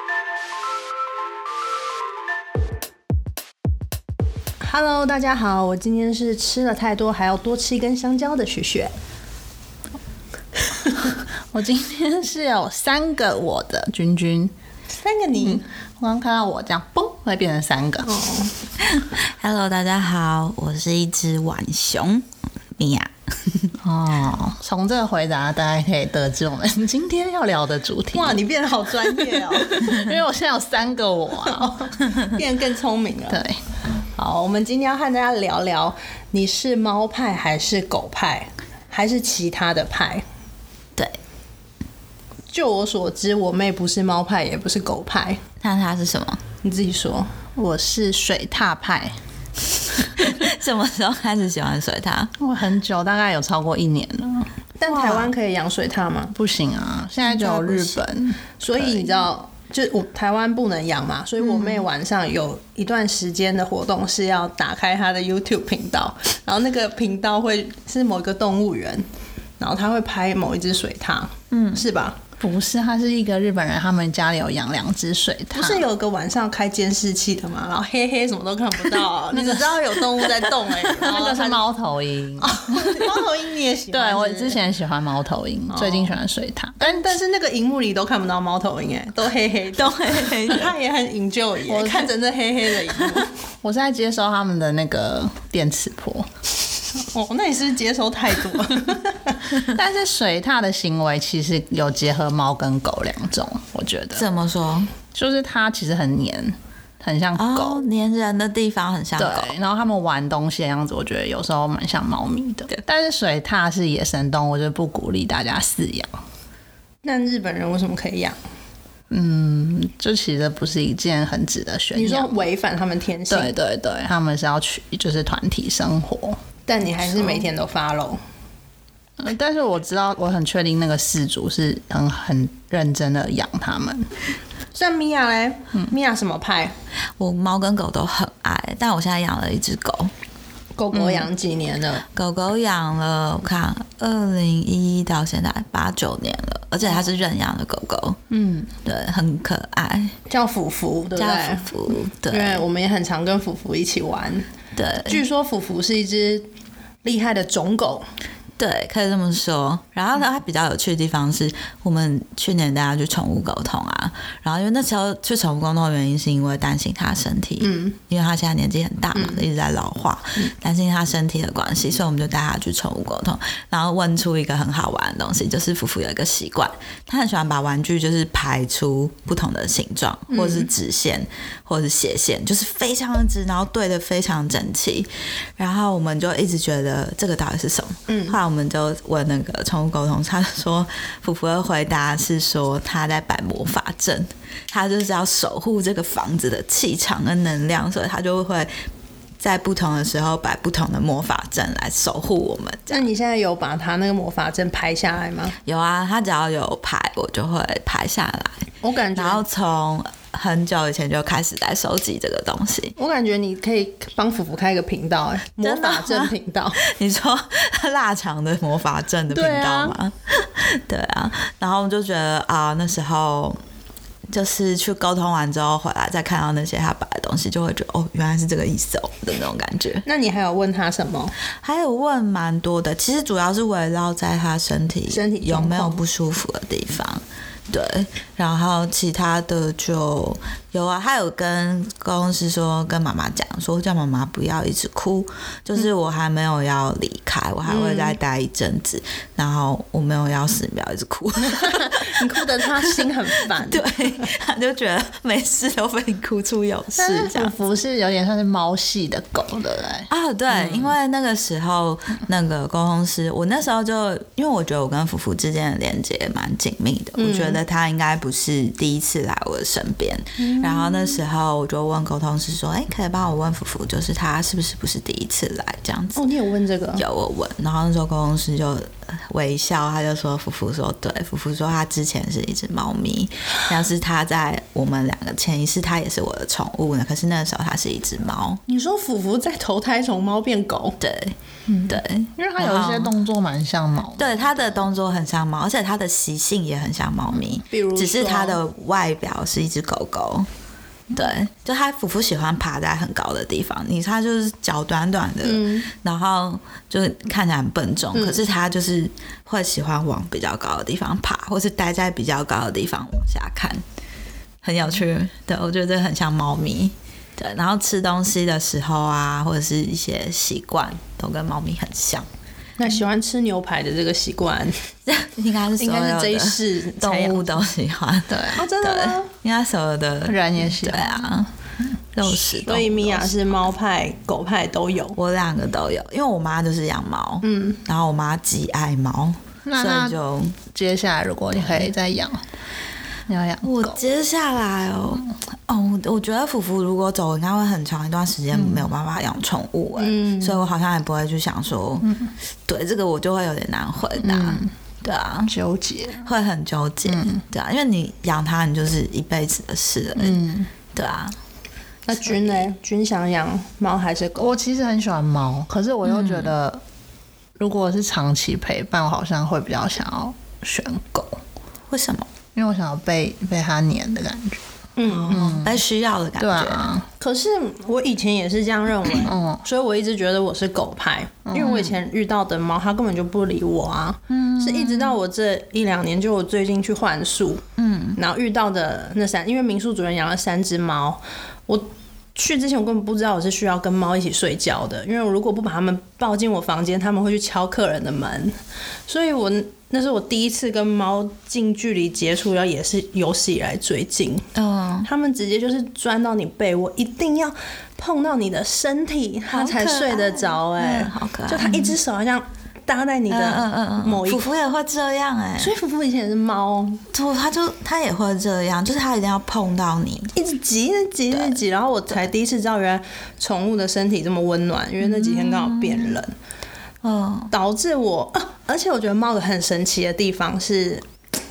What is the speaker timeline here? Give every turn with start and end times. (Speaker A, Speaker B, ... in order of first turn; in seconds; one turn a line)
Speaker A: 4.6-8.9
Speaker B: 11.5-14.5
Speaker A: 14.9-15.6
Speaker B: 15.4-18.1
Speaker A: 18.0-18.5
Speaker C: 18.8-22.2
Speaker C: 22.8-23.7
Speaker B: 23.8-28.4
Speaker A: 28.1-30.0
Speaker B: 29.7-32.0
Speaker A: 31.5-33.4
Speaker B: 33.3-33.6
Speaker A: 34.1-40.2
Speaker A: 42.5-45.4
Speaker C: 45.6-46.4
Speaker A: 46.6-47.3
Speaker B: 47.5-49.1
Speaker C: 50.0-52.3
Speaker B: 52.4-54.5
Speaker A: 54.8-56.3
Speaker C: 54.9-55.3
Speaker B: 56.3-59.2
Speaker A: 57.3-58.0
Speaker A: 58.6-69.0
Speaker B: 61.5-61.8
Speaker A: 69.6-72.2
Speaker C: 71.5-71.9
Speaker B: 72.4-75.8
Speaker A: 75.5-81.6
Speaker B: 79.3-82.6
Speaker A: 82.4-84.6
Speaker B: 83.9-87.1
Speaker A: 85.7-86.2
Speaker A: 86.8-93.3
Speaker C: 89.8-90.7
Speaker B: 91.7-92.1
Speaker B: 93.6-96.3
Speaker A: 97.0-99.4
Speaker B: 99.6-104.2
Speaker C: 104.1-104.9
Speaker B: 105.1-107.8
Speaker C: 107.3-109.5
Speaker B: 109.2-116.2
Speaker A: 117.0-118.4
Speaker B: 119.1-122.4
Speaker A: 121.9-123.6
Speaker B: 123.3-126.4
Speaker A: 126.7-128.2
Speaker B: 127.0-127.5
Speaker B: 129.2-134.0
Speaker A: 134.7-136.7
Speaker C: 137.2-140.1
Speaker A: 140.8-142.0
Speaker C: 142.1-148.2
Speaker B: 148.3-148.7
Speaker C: 148.8-150.1
Speaker A: 150.3-151.7
Speaker C: 151.2-152.6
Speaker A: 152.3-154.5
Speaker C: 154.7-155.2
Speaker A: 155.1-156.5
Speaker A: 157.0-158.1
Speaker C: 158.6-198.7
Speaker A: 167.6-167.9
Speaker A: 169.1-169.4
Speaker A: 180.3-180.7
Speaker A: 188.1-188.4
Speaker C: 199.4-203.1
Speaker A: 202.9-205.6
Speaker C: 205.6-212.9
Speaker A: 208.8-209.4
Speaker A: 213.0-216.8
Speaker C: 215.6-223.6
Speaker A: 219.3-220.0
Speaker C: 224.3-230.0
Speaker A: 230.1-231.3
Speaker C: 231.6-252.8
Speaker A: 235.1-236.0
Speaker A: 247.7-248.2
Speaker A: 251.5-253.8
Speaker C: 253.7-257.5
Speaker B: 257.0-260.1
Speaker C: 260.1-276.2
Speaker A: 267.1-267.6
Speaker A: 270.4-271.2
Speaker A: 276.1-277.0
Speaker C: 276.9-288.6
Speaker A: 288.7-291.0
Speaker C: 291.0-293.1
Speaker B: 291.7-294.4
Speaker C: 294.2-300.5
Speaker A: 297.6-298.6
Speaker C: 301.1-313.8
Speaker A: 305.4-305.9
Speaker A: 308.1-308.4
Speaker C: 314.6-322.2
Speaker A: 322.8-324.8
Speaker C: 325.1-331.5
Speaker A: 325.8-327.7
Speaker B: 328.3-328.6
Speaker A: 328.5-329.3
Speaker B: 330.2-331.2
Speaker C: 332.1-333.7
Speaker A: 332.3-335.2
Speaker C: 335.1-340.6
Speaker A: 337.4-337.8
Speaker B: 339.6-340.2
Speaker B: 340.7-342.4
Speaker C: 341.5-341.9
Speaker B: 343.3-343.9
Speaker C: 343.6-352.1
Speaker B: 348.5-348.9
Speaker A: 350.0-350.7
Speaker B: 352.0-352.3
Speaker C: 352.7-355.5
Speaker B: 354.2-354.7
Speaker B: 355.5-356.3
Speaker C: 356.2-360.4
Speaker B: 357.1-357.4
Speaker B: 360.2-360.7
Speaker C: 360.9-361.3
Speaker A: 362.1-364.5
Speaker C: 362.2-362.6
Speaker B: 364.4-366.8
Speaker C: 366.0-366.5
Speaker B: 367.6-371.4
Speaker C: 371.9-372.3
Speaker B: 372.6-374.6
Speaker A: 375.0-375.6
Speaker C: 375.2-376.9
Speaker B: 375.3-375.8
Speaker B: 376.4-377.1
Speaker A: 377.2-387.6
Speaker B: 379.3-379.6
Speaker B: 381.5-382.0
Speaker B: 384.4-385.1
Speaker C: 387.8-388.2
Speaker A: 388.1-404.5
Speaker C: 404.5-405.1
Speaker A: 405.0-414.5
Speaker C: 409.5-411.9
Speaker C: 413.3-415.7
Speaker A: 415.6-417.0
Speaker C: 417.1-420.3
Speaker A: 420.3-426.3
Speaker C: 421.3-421.6
Speaker C: 425.0-426.2
Speaker C: 427.0-427.5
Speaker A: 427.5-431.1